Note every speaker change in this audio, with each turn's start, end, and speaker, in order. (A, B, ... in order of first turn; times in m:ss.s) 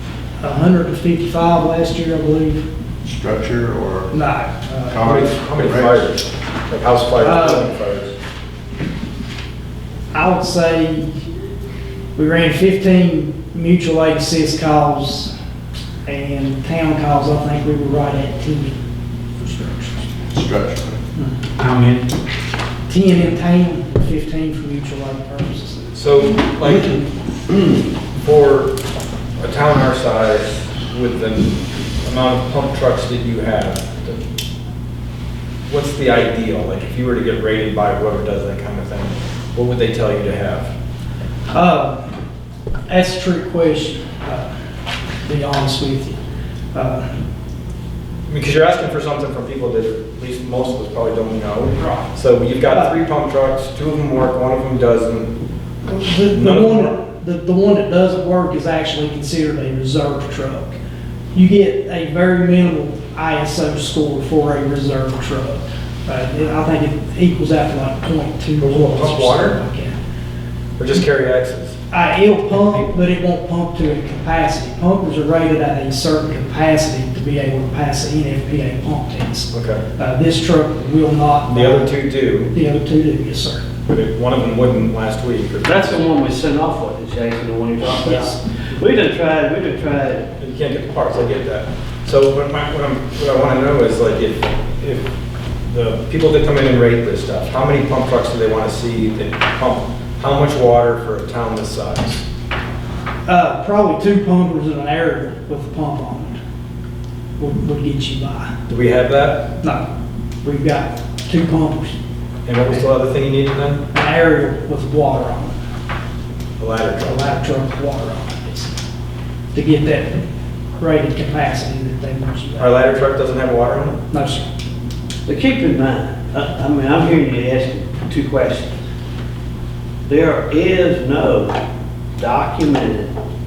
0:00.4-0:02.7 A
0:03.0-0:04.1 B
0:04.1-0:05.0 A
0:04.9-0:05.9 B
0:05.0-0:08.1 C
0:07.2-0:07.7 A
0:10.1-0:11.2 A
0:12.1-0:15.3 A
0:16.0-0:18.8 A
0:19.4-0:20.0 A
0:20.3-0:21.0 B
0:21.2-0:21.5 A
0:22.9-0:25.9 A
0:25.9-0:27.0 C
0:28.2-0:28.8 C
0:29.4-0:34.2 C
0:35.7-0:40.7 C
0:41.5-0:42.1 A
0:42.9-0:44.6 A
0:45.2-0:46.2 A
0:46.7-0:47.2 A
0:48.3-0:55.3 C
0:51.8-0:52.1 A
0:52.7-0:53.0 A
0:55.8-1:00.8 A
0:56.3-0:56.9 C
1:01.3-1:10.0 A
1:08.6-1:09.6 C
1:10.8-1:11.8 C
1:11.9-1:21.9 A
1:12.6-1:12.9 C
1:19.5-1:19.8 C
1:21.5-1:22.5 C
1:22.5-1:23.7 A
1:23.8-1:26.0 C
1:25.6-1:30.3 D
1:27.9-1:28.4 A
1:30.4-1:35.1 C
1:35.6-1:42.2 C
1:43.2-1:46.4 A
1:47.4-1:48.5 A
1:48.7-1:49.5 C
1:49.6-1:49.9 A
1:50.4-1:52.0 A
1:52.4-1:53.8 C
1:53.9-1:55.6 A
1:56.6-1:57.3 C
1:57.0-1:58.7 A
1:59.5-2:02.8 A
2:02.6-2:04.0 C
2:04.1-2:04.5 A
2:05.2-2:08.8 D
2:10.1-2:11.5 D
2:12.2-2:13.1 D